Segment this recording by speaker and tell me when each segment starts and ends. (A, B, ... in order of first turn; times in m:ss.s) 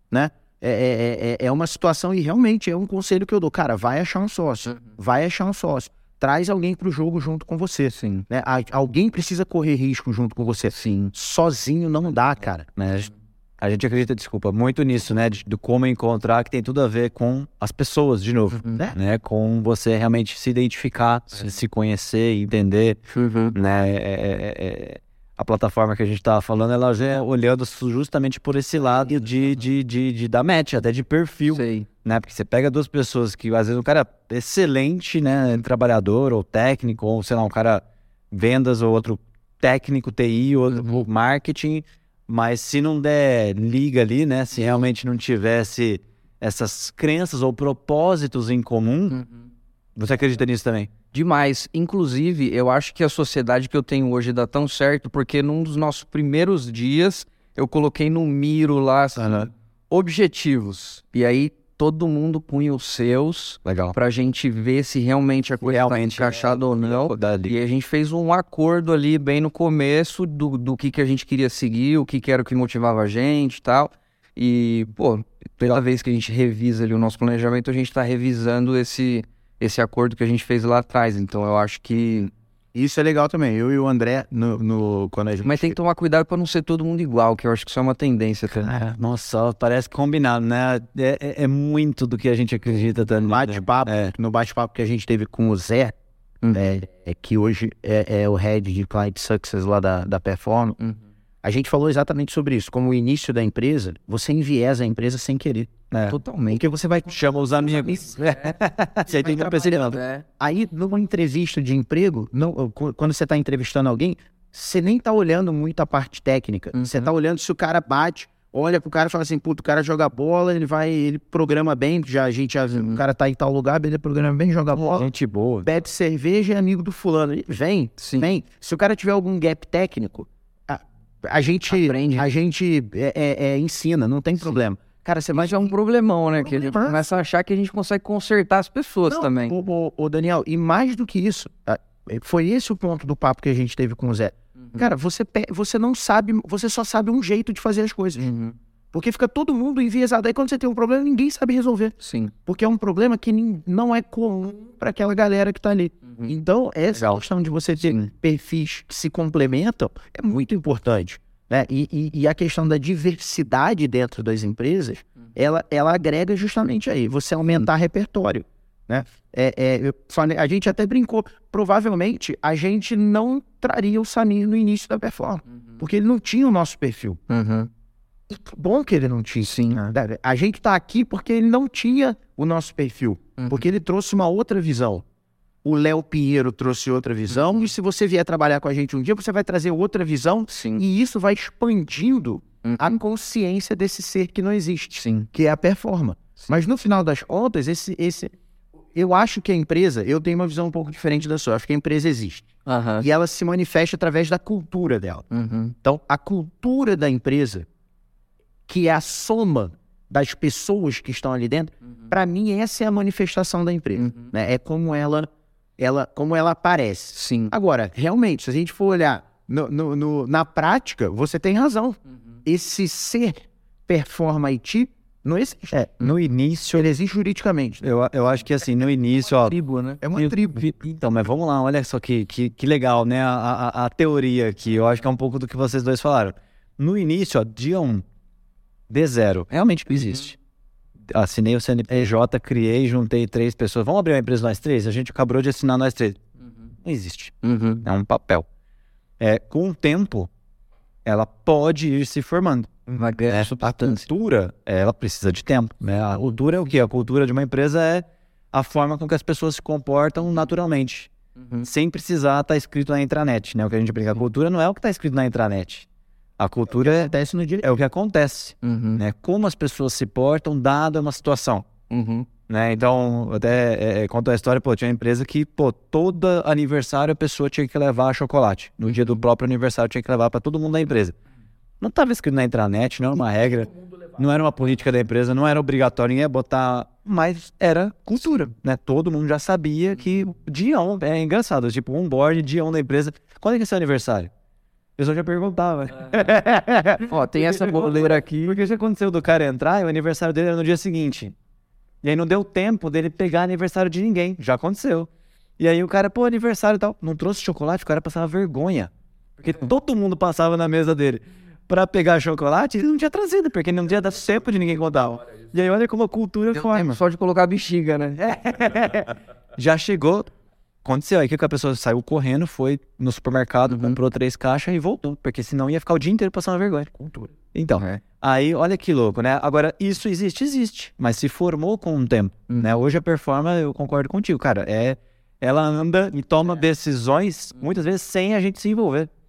0:00.1-0:12.7 A
0:04.6-0:04.9 B
0:07.9-0:08.2 B
0:10.7-0:11.1 B
0:12.8-0:23.0 C
0:23.1-0:23.6 B
0:23.5-0:49.2 C
0:31.5-0:31.8 B
0:40.7-0:41.0 B
0:49.1-0:49.4 B
0:50.0-0:50.9 C
0:51.1-1:22.3 B
0:59.2-0:59.5 C
1:03.6-1:04.0 C
1:05.6-1:07.5 C
1:22.7-1:25.7 A
1:25.4-1:28.7 B
1:28.6-1:34.1 C
1:33.3-1:35.9 A
1:36.5-1:40.8 A
1:40.8-1:41.0 B
1:41.4-1:45.7 A
1:45.9-1:50.0 C
1:46.1-1:46.6 B
1:46.6-1:47.1 A
1:48.0-1:50.2 B
1:50.4-2:05.1 A
1:56.7-1:57.1 B
2:02.7-2:03.0 B
2:04.7-2:05.7 C
2:05.6-2:15.7 A
2:08.0-2:08.3 B
2:11.7-2:12.2 B
2:15.3-2:19.5 B
2:16.4-2:17.0 A
2:19.1-2:28.3 A
2:24.6-2:24.9 B
2:28.2-2:28.6 B
2:28.9-2:57.2 A
2:32.0-2:32.3 B
2:36.0-2:36.3 B
2:36.9-2:37.2 C
2:37.8-2:38.1 B
2:57.3-2:57.7 B
2:58.3-3:05.0 A
2:59.4-2:59.8 B
3:03.4-3:03.6 B
3:05.6-3:18.3 A
3:10.5-3:10.8 B
3:12.6-3:12.9 B
3:15.0-3:15.3 B
3:18.9-3:22.5 A
3:22.6-3:23.1 B
3:23.0-3:25.2 A
3:25.3-3:25.7 B
3:25.8-3:27.6 A
3:28.7-3:46.0 A
3:33.9-3:34.3 B
3:37.1-3:37.5 B
3:46.0-3:46.8 C
3:46.8-3:47.8 A
3:47.8-3:49.5 C
3:49.3-3:50.0 B
3:50.0-3:50.7 A
3:50.1-3:58.0 C
3:58.9-4:00.4 C
4:01.1-4:06.2 C
4:06.8-4:08.4 C
4:07.4-4:07.8 B
4:09.2-4:10.3 C
4:11.0-4:21.1 C
4:12.9-4:14.0 B
4:21.4-4:21.7 B
4:21.6-4:25.8 C
4:26.4-4:27.1 C
4:26.7-4:27.7 A
4:27.6-4:31.7 C
4:28.6-4:29.0 B
4:31.9-4:32.3 B
4:32.5-4:41.1 C
4:41.8-4:54.3 C
4:55.0-5:01.3 C
4:57.0-4:58.6 B
5:02.0-5:08.9 C
5:09.4-5:17.0 C
5:16.5-5:18.3 B
5:18.2-5:20.3 C
5:20.8-5:26.9 C
5:23.7-5:24.0 B
5:27.0-5:27.3 A
5:27.5-5:39.1 C
5:27.7-5:28.0 B
5:32.5-5:32.8 B